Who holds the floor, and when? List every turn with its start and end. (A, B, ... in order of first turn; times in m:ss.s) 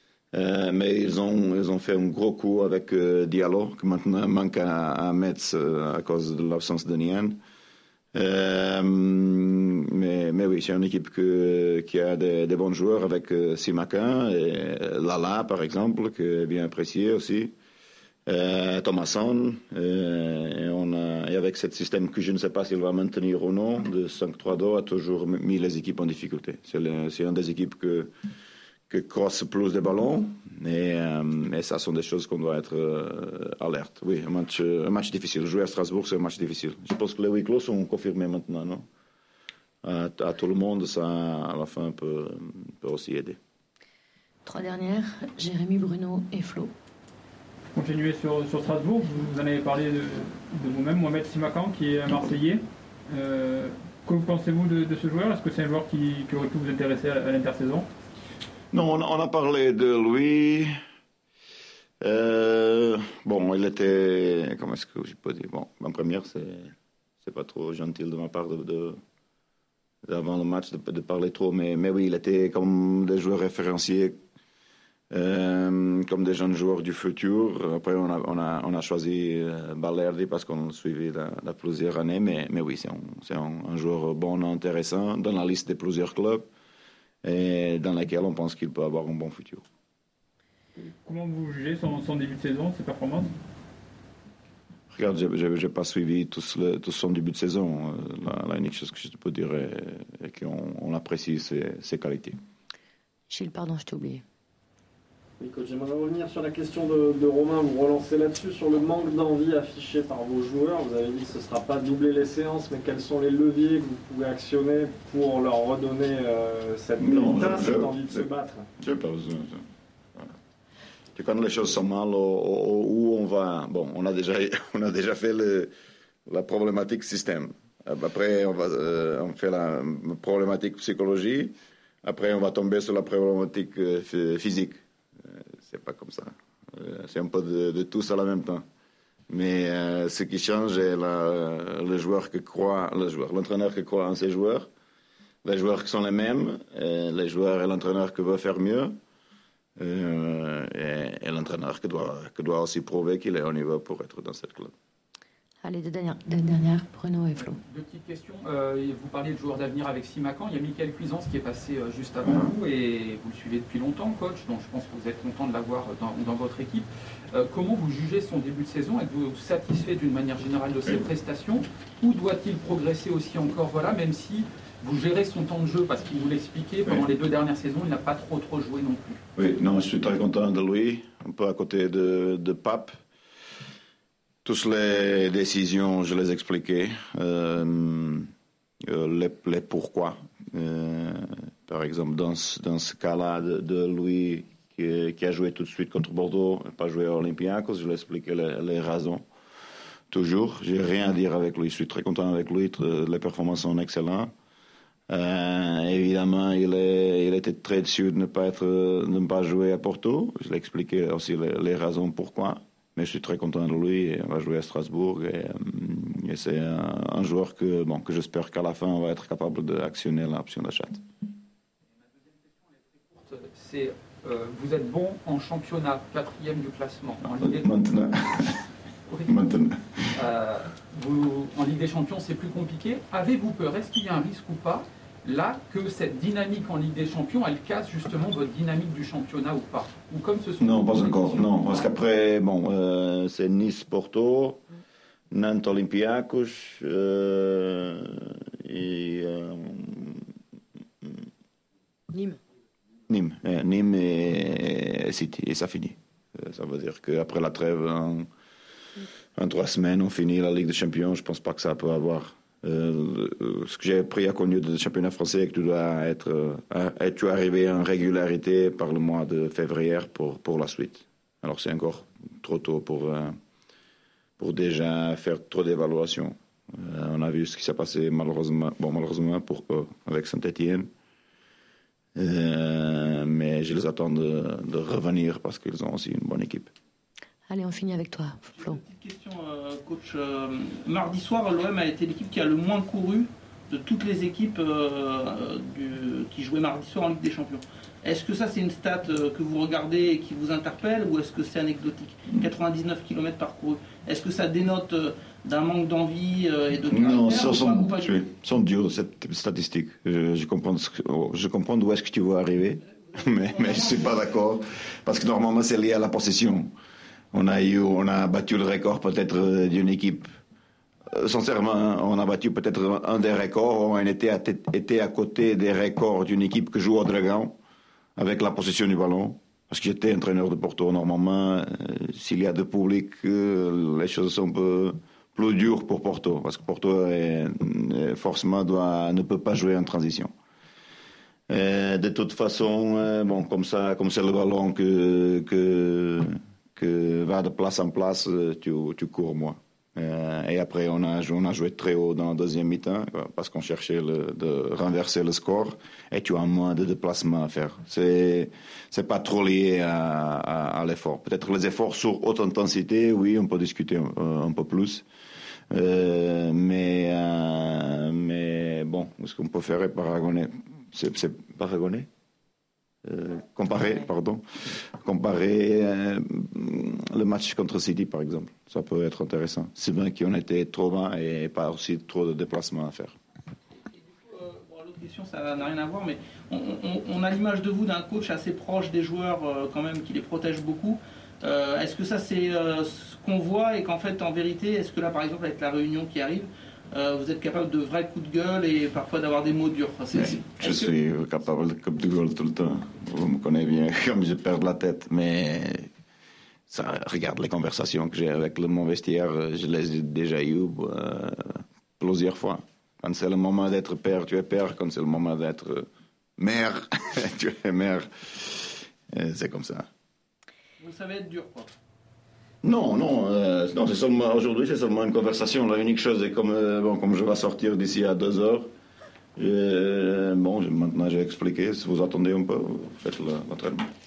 0:00.3-0:07.4 A
0:08.1-0:17.5 A
0:18.2-0:28.1 A
0:28.9-0:38.8 A
0:39.8-0:43.4 A
0:44.4-0:46.7 B
0:47.7-0:57.8 C
0:58.7-1:00.7 A
1:02.0-1:09.0 A
1:10.0-1:14.2 A
1:15.1-1:26.5 A
1:27.2-1:29.6 A
1:30.8-1:33.3 C
1:34.9-1:42.4 A
1:43.3-1:44.2 B
1:45.4-1:58.7 D
1:57.0-1:58.2 A
1:58.8-1:59.6 A
2:01.1-2:05.7 A
2:06.3-2:18.6 A
2:19.3-2:24.7 A
2:25.4-2:29.0 A
2:29.8-2:34.7 A
2:35.6-2:37.6 B
2:37.4-2:59.2 E
2:42.2-2:42.5 A
2:59.4-3:03.0 A
3:04.4-3:08.3 A
3:08.8-3:19.2 A
3:20.1-3:24.3 A
3:25.1-3:41.0 A
3:42.3-3:47.8 E
3:47.4-3:48.6 A
3:49.1-3:49.3 E
3:49.2-3:50.1 A
3:50.1-4:01.9 E
4:00.6-4:04.6 A
4:05.3-4:10.3 A
4:12.1-4:12.4 B
4:13.1-4:18.3 A
4:19.4-4:33.4 A
4:34.4-4:40.9 A
4:42.1-4:46.7 A
4:47.5-4:48.8 B
4:48.5-5:08.2 F
5:06.9-5:16.7 A
5:17.3-5:20.3 A
5:21.1-5:27.5 A
5:28.2-5:40.3 A
5:41.5-6:05.0 A
6:05.7-6:12.1 A
6:13.0-6:23.2 A
6:24.0-6:40.9 F
6:40.1-6:45.9 A
6:46.7-6:55.9 A
6:56.4-6:59.9 A
7:00.8-7:01.7 F
7:02.6-7:08.7 A
7:09.4-7:13.9 A